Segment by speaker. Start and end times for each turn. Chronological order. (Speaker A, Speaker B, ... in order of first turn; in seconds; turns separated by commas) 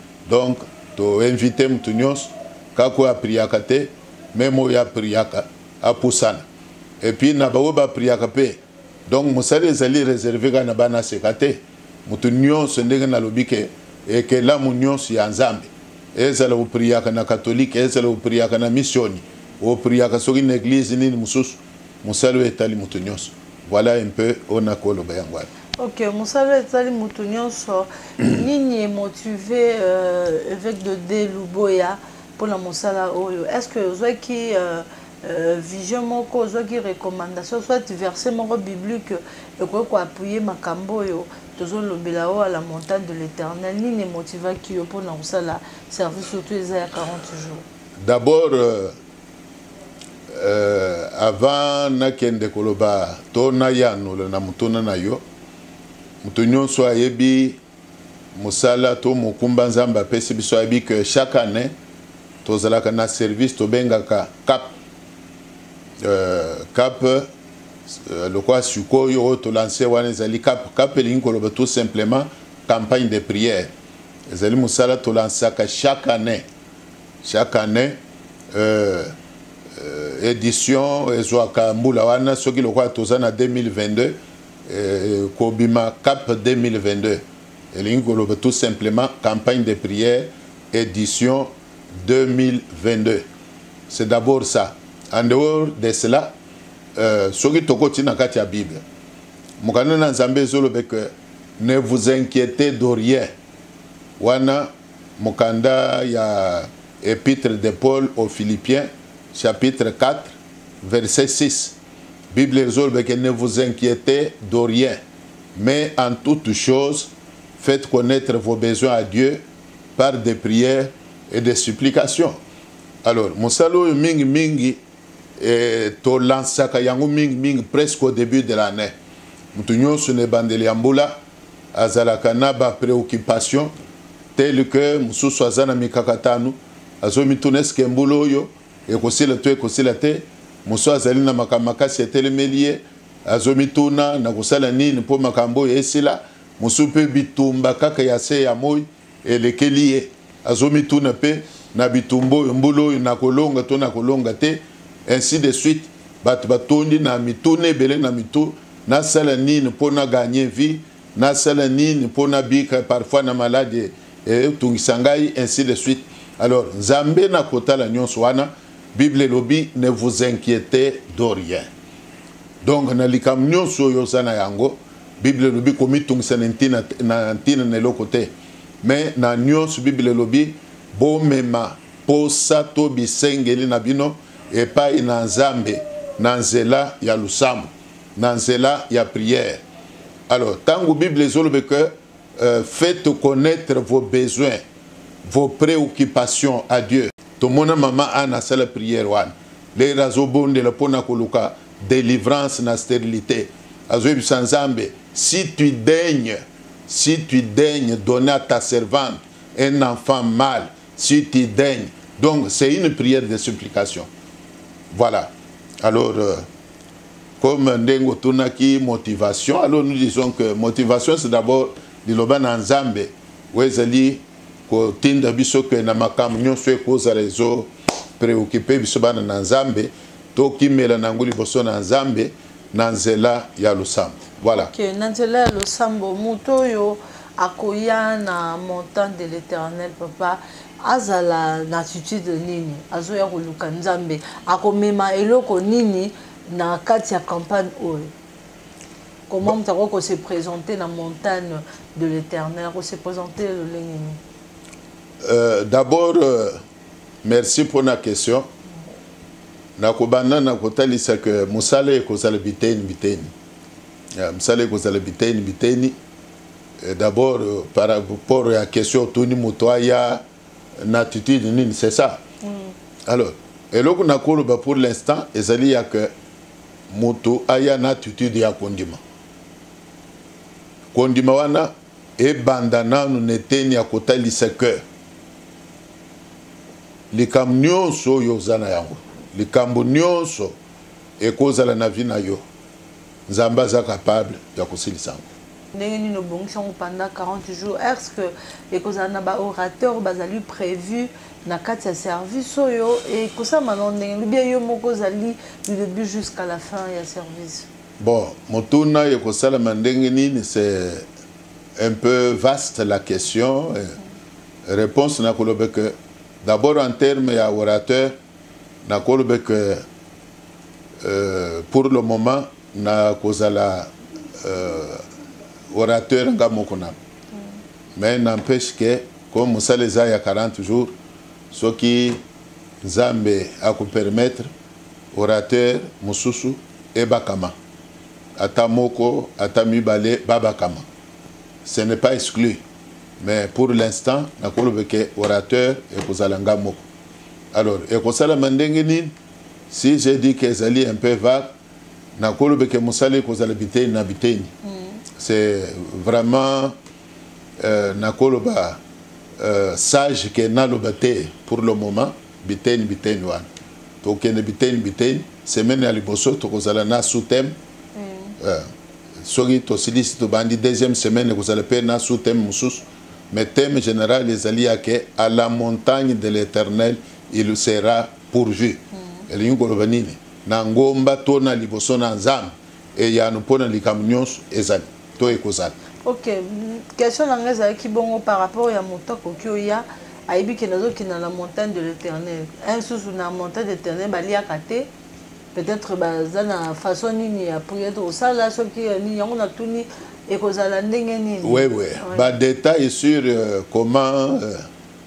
Speaker A: 0.2-6.4, Speaker A: 7.0-25.5, Speaker B: 25.8-47.6, Speaker A: 48.0-48.9, Speaker A: 50.3-55.2, Speaker A: 56.2-57.6, Speaker A: 58.3-61.7, Speaker A: 62.4-64.7, Speaker A: 66.0-67.3, Speaker A: 67.9-73.7, Speaker A: 74.3-76.4, Speaker A: 77.2-78.0, Speaker A: 78.5-79.1, Speaker A: 79.7-93.2, Speaker A: 93.9-96.3, Speaker A: 97.0-98.8, Speaker A: 99.6-103.3, Speaker A: 104.2-111.8, Speaker A: 112.3-115.0, Speaker A: 115.5-119.4, Speaker A: 120.0-122.4, Speaker A: 123.0-124.8, Speaker A: 125.4-128.9, Speaker A: 129.5-131.2, Speaker A: 131.7-133.7, Speaker A: 134.3-171.7, Speaker A: 172.6-189.6, Speaker A: 190.3-194.6, Speaker A: 195.2-214.1, Speaker A: 214.9-216.5, Speaker A: 217.4-234.7, Speaker B: 234.5-248.1, Speaker B: 249.3-254.2, Speaker A: 255.2-256.6, Speaker A: 257.2-258.5, Speaker A: 259.8-263.3, Speaker A: 264.1-265.9, Speaker A: 266.8-270.2, Speaker A: 270.8-272.2, Speaker B: 272.4-272.7, Speaker A: 273.1-276.1, Speaker A: 276.9-279.0, Speaker A: 280.9-284.8, Speaker A: 287.1-290.6, Speaker A: 291.2-292.4, Speaker A: 293.3-295.2, Speaker B: 295.7-307.7, Speaker A: 308.0-311.1, Speaker A: 311.8-313.9, Speaker A: 314.7-318.1, Speaker A: 318.8-319.8, Speaker A: 321.0-325.0, Speaker A: 325.7-326.9, Speaker A: 328.0-330.9, Speaker A: 331.5-332.2, Speaker A: 332.8-334.5, Speaker A: 335.1-337.5, Speaker A: 338.4-340.9, Speaker A: 341.6-342.6, Speaker A: 343.2-346.8, Speaker A: 347.5-349.1, Speaker A: 349.7-351.5, Speaker A: 352.2-354.5, Speaker B: 354.6-355.0, Speaker A: 355.1-356.7, Speaker A: 357.6-358.8, Speaker A: 359.4-363.5, Speaker A: 364.0-367.6, Speaker B: 367.9-368.4, Speaker A: 368.4-368.7, Speaker A: 369.2-385.7, Speaker B: 386.0-394.9, Speaker B: 395.5-402.3, Speaker A: 401.4-404.7